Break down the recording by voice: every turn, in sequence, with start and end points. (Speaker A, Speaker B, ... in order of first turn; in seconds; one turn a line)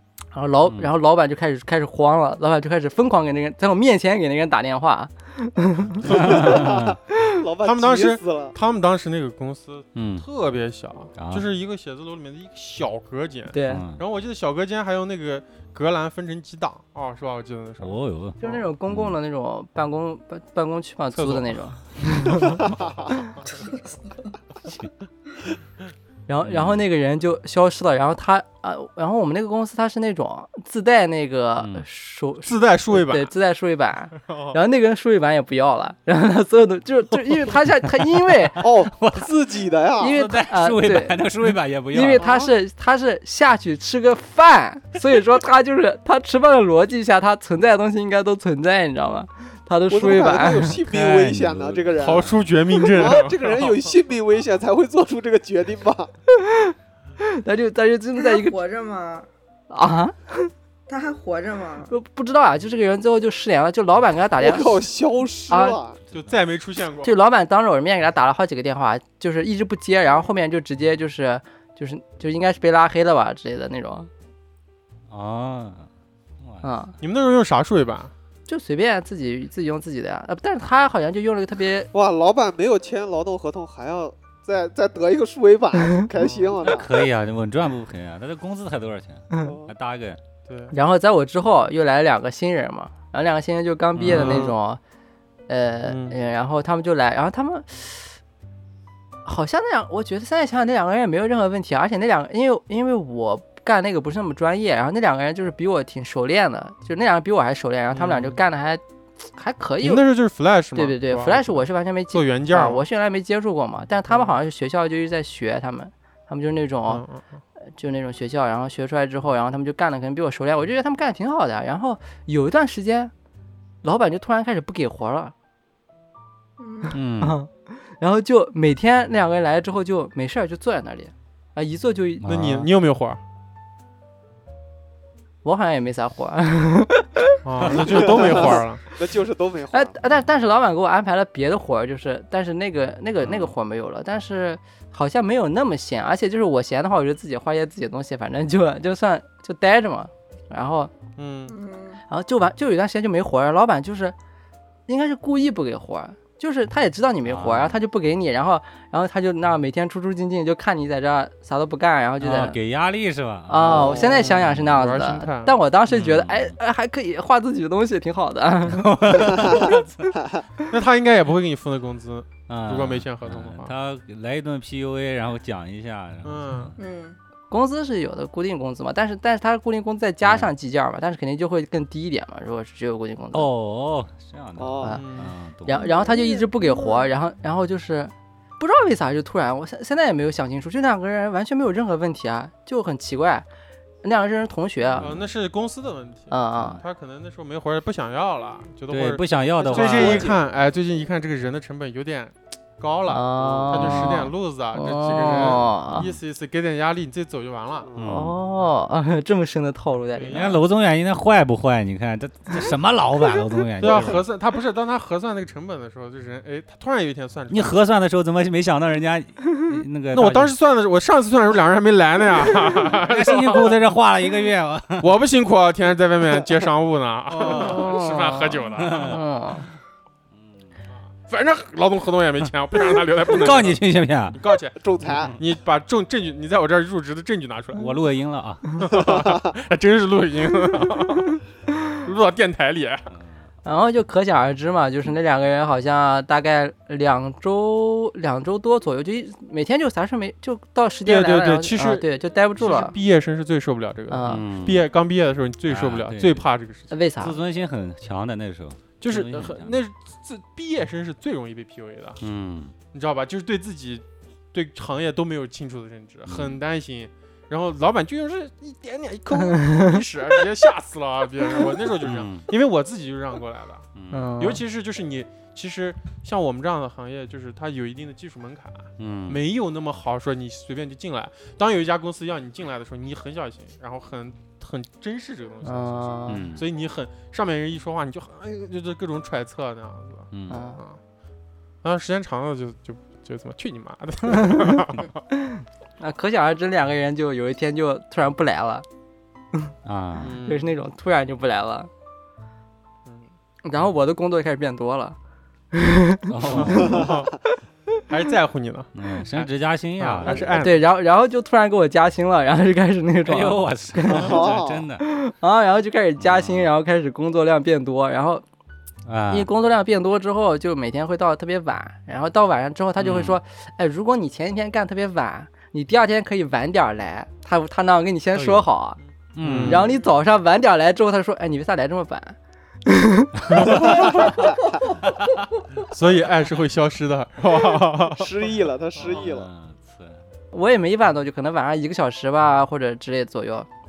Speaker A: 0.3-6.1
Speaker B: 6.1-8.6
Speaker C: 6.1-7.0
Speaker D: 6.2-6.5
Speaker D: 7.6-18.6
Speaker C: 9.9-10.2
Speaker C: 11.2-11.5
Speaker A: 13.5-13.8
Speaker C: 13.7-14.0
Speaker C: 17.8-19.1
Speaker A: 18.4-22.6
Speaker D: 21.1-21.6
Speaker D: 22.4-23.0
Speaker A: 26.3-38.6
Speaker C: 26.4-26.8
Speaker C: 31.6-31.8
Speaker D: 32.4-33.3
Speaker D: 34.1-34.6
Speaker C: 38.6-39.3
Speaker B: 38.6-40.2
Speaker A: 40.0-41.3
Speaker C: 40.1-42.2
Speaker A: 41.9-50.7
Speaker B: 42.2-42.5
Speaker B: 49.9-52.3
Speaker C: 50.8-52.4
Speaker D: 51.9-53.8
Speaker B: 52.9-56.1
Speaker A: 56.4-58.6
Speaker E: 58.2-59.3
Speaker A: 59.7-60.5
Speaker E: 60.9-61.9
Speaker A: 61.9-64.9
Speaker B: 64.4-66.0
Speaker A: 65.5-65.8
Speaker D: 66.1-67.2
Speaker A: 67.0-74.1
Speaker C: 75.1-75.9
Speaker C: 76.4-76.7
Speaker A: 76.6-76.9
Speaker D: 77.0-78.1
Speaker A: 78.5-81.9
Speaker B: 81.9-87.0
Speaker D: 86.2-86.6
Speaker C: 86.6-90.2
Speaker B: 89.4-89.7
Speaker D: 90.5-90.8
Speaker A: 90.7-94.8
Speaker C: 94.0-94.5
Speaker D: 94.1-94.5
Speaker A: 95.5-98.1
Speaker D: 95.8-96.2
Speaker A: 99.2-110.0
Speaker D: 107.9-108.4
Speaker D: 109.8-112.9
Speaker A: 110.7-117.0
Speaker D: 116.9-117.2
Speaker A: 117.8-123.1
Speaker A: 123.8-125.3
Speaker E: 126.6-127.0
Speaker C: 126.9-127.4
Speaker A: 127.2-132.7
Speaker C: 132.2-132.6
Speaker D: 132.2-133.2
Speaker A: 135.4-137.4
Speaker D: 137.4-138.8
Speaker B: 137.9-139.9
Speaker A: 138.1-138.5
Speaker A: 139.7-150.9
Speaker D: 151.2-151.6
Speaker E: 151.5-152.0
Speaker A: 152.1-154.1
Speaker A: 154.9-162.6
Speaker C: 157.2-157.8
Speaker C: 162.2-164.7
Speaker A: 163.5-169.8
Speaker B: 163.7-164.3
Speaker D: 163.9-165.6
Speaker C: 165.9-166.5
Speaker C: 168.7-170.2
Speaker B: 169.4-169.7
Speaker D: 170.7-173.7
Speaker C: 172.5-176.8
Speaker D: 176.2-176.8
Speaker E: 176.8-177.2
Speaker A: 177.5-183.5
Speaker C: 180.2-180.5
Speaker C: 183.3-185.9
Speaker B: 184.6-185.0
Speaker D: 184.9-185.3
Speaker A: 185.7-193.4
Speaker E: 185.7-187.1
Speaker A: 194.0-195.1
Speaker C: 194.9-195.3
Speaker D: 195.0-207.9
Speaker A: 196.3-196.8
Speaker C: 198.9-200.3
Speaker B: 199.7-200.3
Speaker A: 203.1-206.1
Speaker B: 203.4-203.9
Speaker C: 203.8-204.2
Speaker B: 207.8-208.2
Speaker C: 208.0-208.3
Speaker A: 208.0-210.6
Speaker D: 210.1-210.6
Speaker C: 210.3-214.2
Speaker D: 213.8-217.8
Speaker C: 217.5-220.5
Speaker D: 220.1-223.8
Speaker C: 222.6-225.1
Speaker D: 225.0-229.2
Speaker C: 227.3-228.0
Speaker A: 227.4-229.7
Speaker C: 228.8-229.2
Speaker C: 230.4-230.7
Speaker D: 231.2-233.8
Speaker C: 233.3-234.4
Speaker D: 234.3-234.8
Speaker B: 234.8-235.3
Speaker D: 235.3-237.9
Speaker C: 237.7-238.7
Speaker D: 238.8-241.4
Speaker D: 242.0-243.1
Speaker C: 243.1-243.4
Speaker A: 243.6-252.9
Speaker D: 251.0-256.9
Speaker A: 254.1-254.4
Speaker C: 254.3-254.9
Speaker C: 255.7-256.4
Speaker A: 256.9-257.4
Speaker C: 257.2-259.8
Speaker D: 259.0-262.2
Speaker C: 262.2-262.7
Speaker D: 262.9-273.9
Speaker C: 266.3-266.6
Speaker A: 269.4-270.0
Speaker C: 272.0-272.5
Speaker C: 273.9-274.3
Speaker A: 274.1-274.6
Speaker D: 274.4-291.0
Speaker C: 279.0-279.4
Speaker A: 285.6-286.5
Speaker C: 286.3-286.6
Speaker C: 290.3-290.6
Speaker A: 290.5-290.8
Speaker D: 291.8-295.2
Speaker A: 294.3-294.7
Speaker A: 295.3-298.9
Speaker C: 299.8-300.4
Speaker D: 300.2-300.7
Speaker A: 300.4-301.9
Speaker A: 303.6-305.2
Speaker A: 305.7-307.0
Speaker C: 306.3-307.1
Speaker D: 306.5-307.4
Speaker B: 306.9-307.2
Speaker D: 308.1-310.8
Speaker C: 308.9-310.6
Speaker A: 310.5-314.4
Speaker C: 313.2-315.0
Speaker B: 314.1-314.9
Speaker A: 315.0-318.4
Speaker C: 316.2-316.7
Speaker C: 319.1-319.5
Speaker A: 319.3-329.0
Speaker C: 323.0-323.4
Speaker C: 328.3-328.7
Speaker C: 329.3-329.9
Speaker D: 329.4-330.0
Speaker A: 329.6-334.1
Speaker D: 333.5-334.3
Speaker C: 333.5-334.4
Speaker D: 335.8-339.3
Speaker B: 338.1-339.5
Speaker C: 339.0-340.2
Speaker A: 340.5-343.7